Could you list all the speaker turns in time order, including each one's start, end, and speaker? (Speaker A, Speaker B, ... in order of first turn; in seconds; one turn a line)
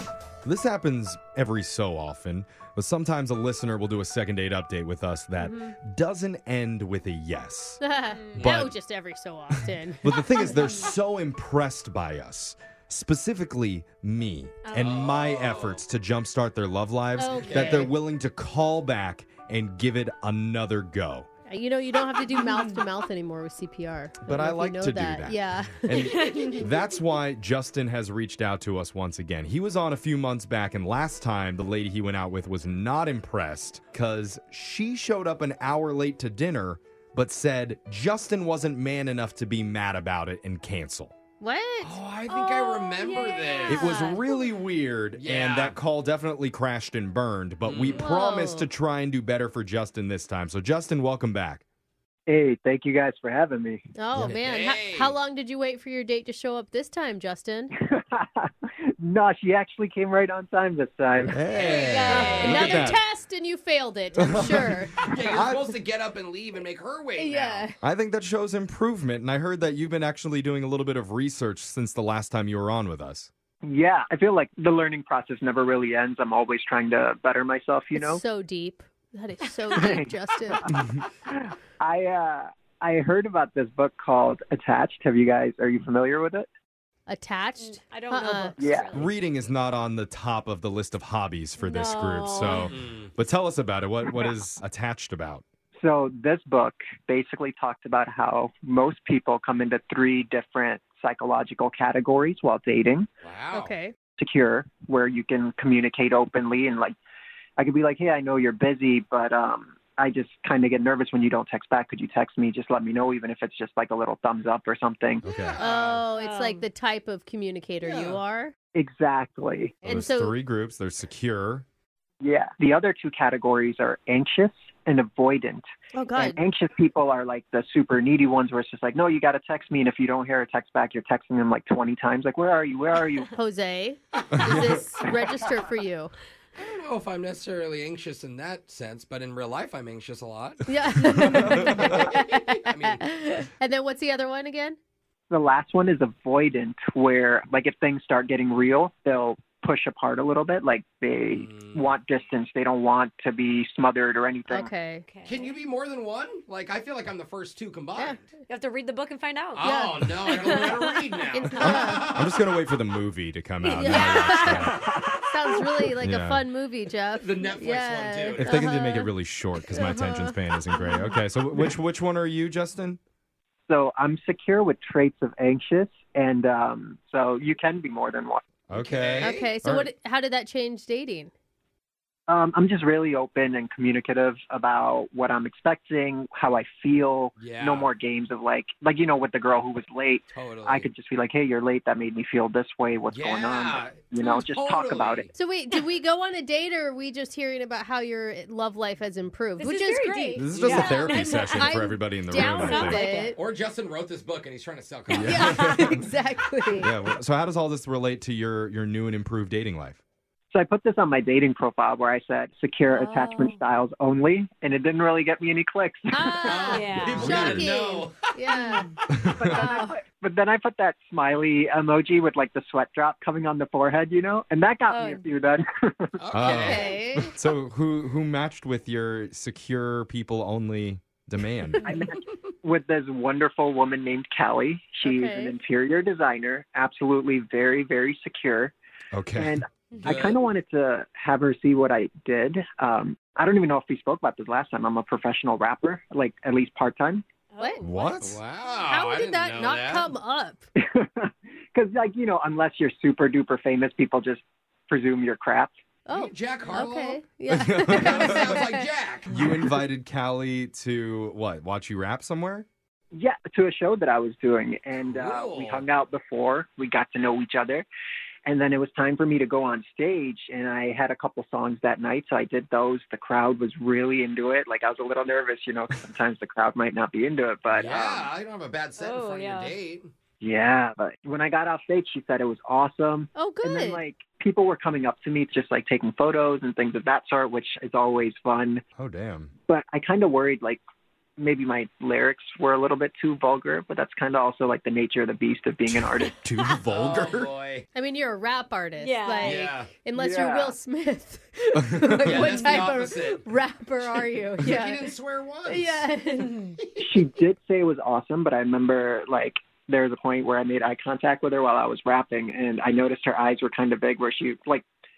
Speaker A: 0.4-7.8
Speaker B: 5.4-5.8
Speaker B: 7.8-10.1
Speaker C: 8.2-8.4
Speaker A: 8.4-8.8
Speaker A: 9.5-21.3
Speaker C: 10.4-10.8
Speaker D: 14.8-15.8
Speaker B: 17.2-17.9
Speaker C: 17.4-17.9
Speaker B: 21.5-26.1
Speaker C: 22.3-22.8
Speaker A: 24.2-41.1
Speaker C: 26.3-26.6
Speaker B: 41.4-44.3
Speaker D: 41.8-44.1
Speaker A: 43.7-51.6
Speaker D: 45.2-45.8
Speaker D: 47.6-48.1
Speaker B: 47.9-48.7
Speaker E: 52.3-53.8
Speaker B: 54.0-57.7
Speaker A: 54.1-54.4
Speaker D: 54.2-55.2
Speaker E: 57.9-61.4
Speaker A: 61.2-63.0
Speaker B: 61.5-65.0
Speaker D: 61.5-63.0
Speaker C: 61.7-62.6
Speaker A: 64.2-65.7
Speaker D: 64.4-67.7
Speaker B: 67.2-67.8
Speaker A: 67.8-73.3
Speaker E: 73.6-78.2
Speaker B: 78.0-80.7
Speaker E: 79.7-86.5
Speaker B: 87.1-88.6
Speaker C: 87.6-89.1
Speaker E: 88.6-89.1
Speaker A: 88.9-95.4
Speaker B: 91.6-92.7
Speaker D: 92.5-93.1
Speaker E: 95.8-103.1
Speaker D: 103.2-103.7
Speaker B: 103.5-103.9
Speaker E: 104.2-107.0
Speaker E: 107.6-115.2
Speaker A: 115.2-115.6
Speaker D: 115.2-116.1
Speaker B: 115.6-118.5
Speaker C: 116.1-116.6
Speaker D: 117.8-118.2
Speaker E: 118.8-119.8
Speaker B: 119.8-120.3
Speaker A: 119.8-121.7
Speaker E: 122.2-133.3
Speaker B: 125.9-126.4
Speaker B: 133.3-136.1
Speaker A: 134.3-134.7
Speaker D: 136.6-143.0
Speaker B: 140.7-144.8
Speaker A: 141.2-141.9
Speaker E: 145.3-154.7
Speaker D: 151.3-152.1
Speaker B: 154.5-155.1
Speaker C: 155.1-155.6
Speaker D: 155.3-158.3
Speaker C: 158.4-159.7
Speaker D: 159.5-162.3
Speaker B: 159.6-160.5
Speaker C: 160.3-160.7
Speaker B: 161.4-162.1
Speaker A: 161.6-164.8
Speaker B: 163.8-169.1
Speaker C: 163.9-164.5
Speaker E: 164.7-165.2
Speaker A: 166.0-166.4
Speaker D: 167.2-168.7
Speaker A: 168.4-173.0
Speaker B: 169.7-170.3
Speaker E: 173.7-178.4
Speaker A: 178.7-179.9
Speaker D: 178.7-179.5
Speaker B: 179.2-181.3
Speaker E: 182.3-195.3
Speaker D: 187.4-187.9
Speaker D: 190.3-190.9
Speaker D: 193.1-195.3
Speaker B: 195.3-203.4
Speaker C: 199.6-201.8
Speaker A: 200.4-203.0
Speaker D: 200.5-201.1
Speaker C: 202.4-203.4
Speaker D: 203.3-205.8
Speaker A: 205.1-206.1
Speaker B: 205.2-206.9
Speaker A: 206.8-210.0
Speaker E: 210.5-216.8
Speaker C: 212.8-213.6
Speaker B: 216.1-218.9
Speaker D: 216.4-218.4
Speaker C: 216.6-217.4
Speaker A: 217.1-217.7
Speaker A: 219.1-219.6
Speaker E: 219.4-226.2
Speaker B: 219.5-220.0
Speaker C: 224.9-225.3
Speaker D: 226.2-227.0
Speaker A: 226.3-231.9
Speaker B: 226.4-227.3
Speaker E: 231.8-238.7
Speaker B: 235.0-235.6
Speaker A: 239.1-239.6
Speaker E: 239.4-247.2
Speaker D: 240.0-240.4
Speaker C: 247.5-248.1
Speaker B: 247.6-247.9
Speaker A: 247.8-248.4
Speaker D: 248.2-250.1
Speaker B: 248.7-250.7
Speaker E: 250.8-255.7
Speaker B: 256.1-258.9
Speaker D: 256.1-257.2
Speaker A: 257.5-258.6
Speaker D: 257.9-259.4
Speaker A: 259.3-262.7
Speaker E: 263.1-267.9
Speaker D: 264.9-265.9
Speaker E: 268.5-278.3
Speaker D: 277.7-280.1
Speaker C: 279.0-279.8
Speaker E: 280.4-288.8
Speaker B: 283.4-284.0
Speaker A: 289.0-289.5
Speaker E: 289.7-290.8
Speaker E: 291.4-296.3
Speaker A: 296.3-297.5
Speaker D: 296.9-297.9
Speaker B: 297.9-305.1
Speaker C: 299.0-299.7
Speaker D: 299.4-299.9
Speaker E: 300.1-300.8
Speaker A: 301.9-302.5
Speaker D: 302.2-303.4
Speaker D: 304.6-306.0
Speaker B: 305.7-306.8
Speaker E: 307.0-314.9